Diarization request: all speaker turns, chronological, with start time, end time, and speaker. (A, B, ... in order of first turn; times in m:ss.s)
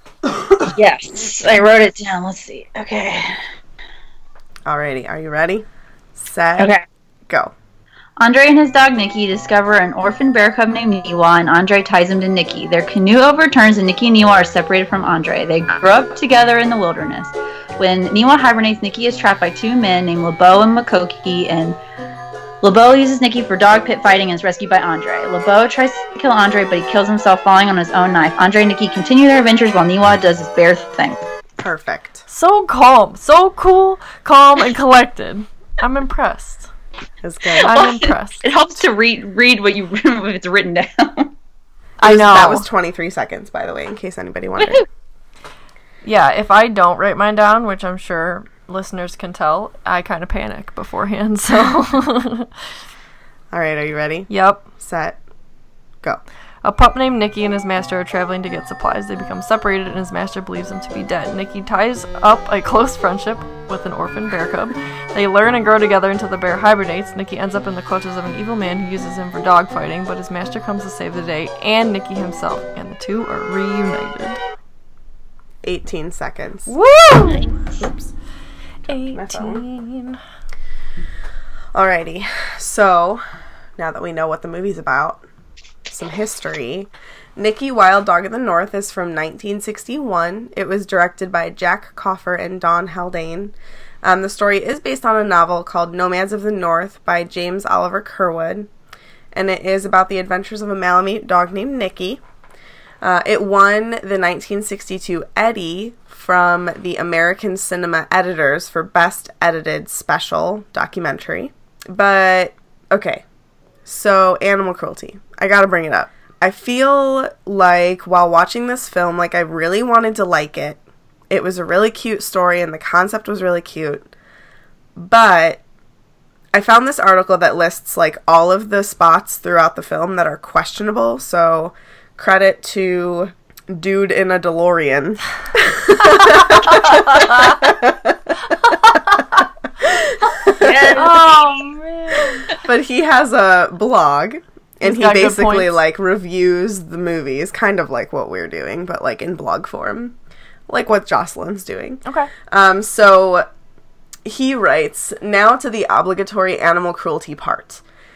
0:00.7-0:03.4 A
0:04.6-0:06.7 B
0:06.6-0:06.8 A
0:08.2-0:21.8 A
0:22.6-0:31.2 A
0:31.6-0:32.2 B
0:32.3-0:36.7 C
0:37.2-0:37.7 B
0:37.6-0:41.3 A
0:37.6-0:38.5 C
0:42.0-0:42.6 C
0:42.0-0:44.8 B
0:44.6-0:44.8 A
0:46.0-0:52.5 C
0:53.5-0:55.2 B
0:54.3-0:54.7 C
0:56.6-1:14.4 C
1:15.6-1:16.7 B
1:16.7-1:17.5 C
1:17.7-1:18.1 B
1:18.9-1:19.6 B
1:18.9-1:20.2 C
1:21.7-1:23.2 B
1:23.8-1:25.2 B
1:25.9-1:38.7 B
1:39.3-1:42.2 B
1:43.0-1:53.2 B
1:53.8-2:04.1 B
2:05.0-2:05.6 B
2:06.5-2:18.7 B
2:19.8-2:21.0 B
2:20.5-2:21.2 A
2:20.9-2:22.5 C
2:22.6-2:30.1 B
2:24.8-2:25.7 C
2:30.7-2:33.5 B
2:32.0-2:32.3 C
2:34.2-2:37.8 B